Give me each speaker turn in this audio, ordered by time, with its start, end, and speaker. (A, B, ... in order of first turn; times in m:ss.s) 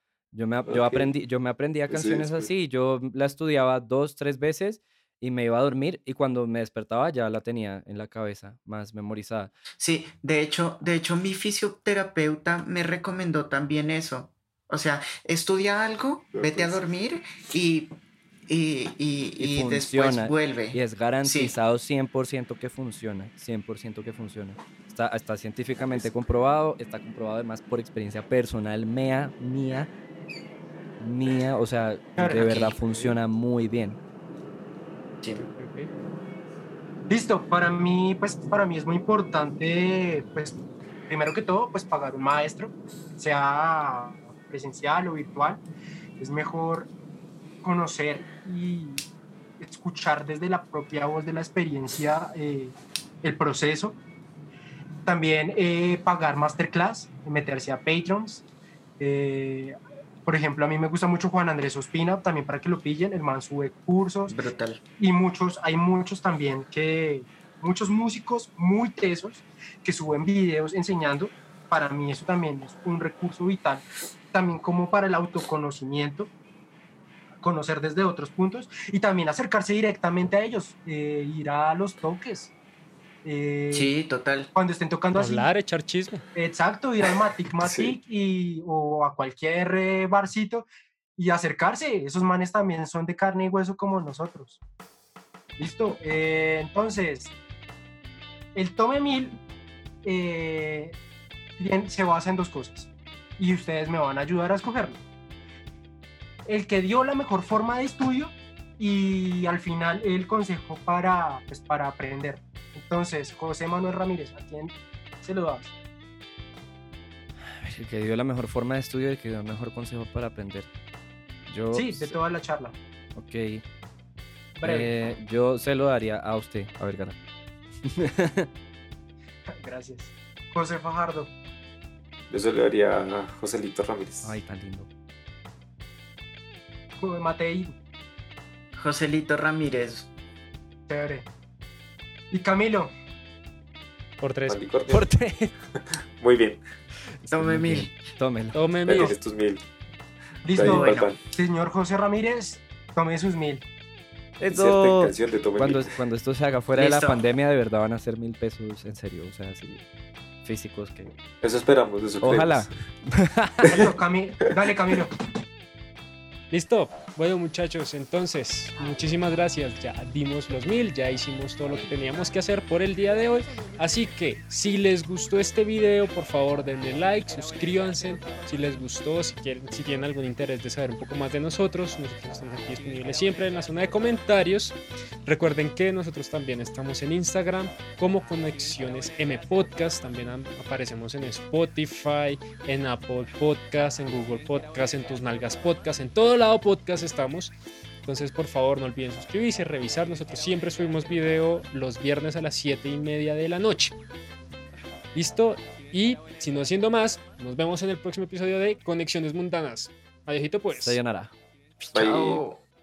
0:00.3-0:09.5 A
0:00.7-0:01.1 B
0:01.9-0:02.5 B
0:09.8-0:17.9 C
0:16.3-0:16.8 B
0:18.5-0:21.5 C
0:19.4-0:29.9 A
0:31.0-0:34.0 A
0:32.2-0:32.8 D
0:32.5-0:32.8 C
0:35.6-0:35.9 E
0:37.1-0:45.6 D
0:46.2-0:46.9 D
0:47.6-0:49.0 D
0:49.6-0:54.0 D
0:55.1-0:58.4 D
0:59.0-0:59.8 D
1:00.3-1:04.4 D
1:04.3-1:04.8 C
1:05.0-1:16.3 D
1:17.4-1:22.5 D
1:23.2-1:23.9 D
1:23.7-1:24.5 C
1:24.5-1:25.5 D
1:25.2-1:26.2 E
1:26.4-1:34.6 D
1:27.6-1:27.9 B
1:35.6-1:37.3 D
1:38.6-1:39.4 D
1:40.0-1:41.0 D
1:41.6-1:45.0 D
1:46.5-1:55.7 D
1:57.6-2:00.7 A
2:01.5-2:02.2 A
2:01.7-2:02.8 D
2:03.2-2:03.6 A
2:04.6-2:04.9 D
2:04.6-2:07.2 A
2:07.8-2:08.5 A
2:09.6-2:11.3 D
2:12.3-2:14.4 B
2:14.2-2:14.9 A
2:17.0-2:17.8 D
2:18.7-2:20.1 C
2:20.9-2:21.3 D
2:22.3-2:22.9 D
2:24.2-2:24.6 E
2:24.5-2:25.1 B
2:24.9-2:25.5 A
2:26.2-2:26.6 B
2:27.2-2:29.0 A
2:27.3-2:27.9 C
2:28.5-2:29.2 E
2:28.9-2:29.6 B
2:30.4-2:33.6 D
2:30.5-2:31.2 B
2:30.6-2:31.1 C
2:34.4-2:39.8 A
2:34.4-2:35.9 B
2:36.8-2:37.2 C
2:40.4-2:41.1 A
2:41.4-2:42.7 B
2:42.2-2:43.9 A
2:43.7-2:45.1 D
2:44.4-2:44.7 B
2:46.5-3:17.5 E
3:18.0-3:23.9 E
3:25.2-3:31.0 E
3:30.8-3:31.3 A
3:31.9-3:32.4 B
3:31.9-3:32.6 C